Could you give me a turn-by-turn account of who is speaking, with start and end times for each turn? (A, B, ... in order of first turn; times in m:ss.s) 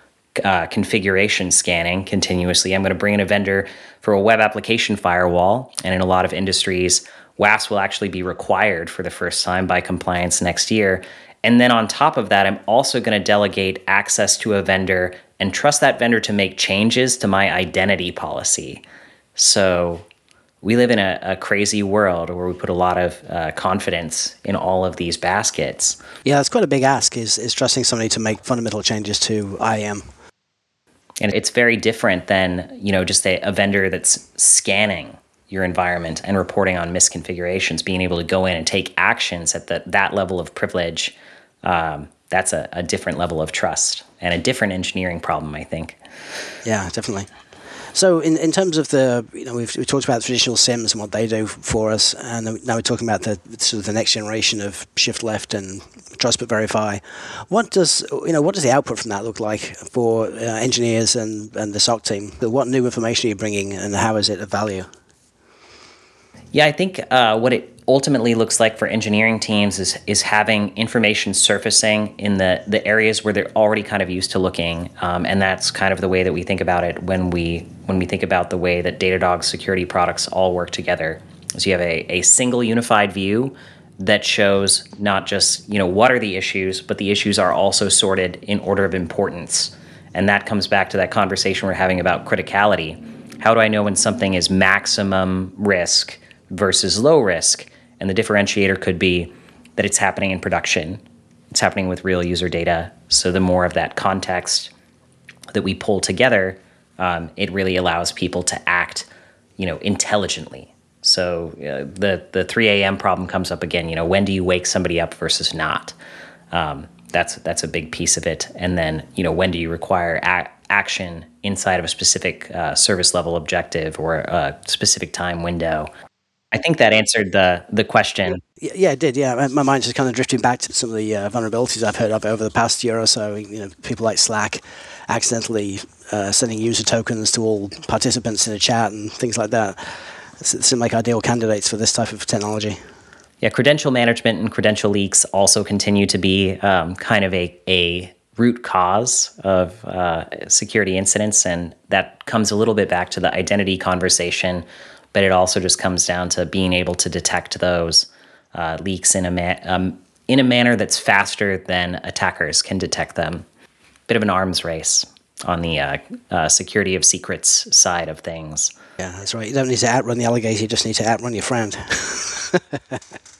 0:00.4-0:18.8 A
0:19.4-0:20.0 A
0:20.6-0:26.0 A
0:26.2-0:30.0 B
0:31.2-0:46.0 A
0:46.6-0:47.3 B
0:47.9-1:04.9 B
1:06.5-1:44.7 A
1:45.5-1:55.9 A
1:56.5-2:05.9 A
2:06.5-2:08.4 A
2:08.5-2:22.8 B
2:23.4-2:43.4 A
2:44.1-2:48.7 A
2:49.0-2:53.0 B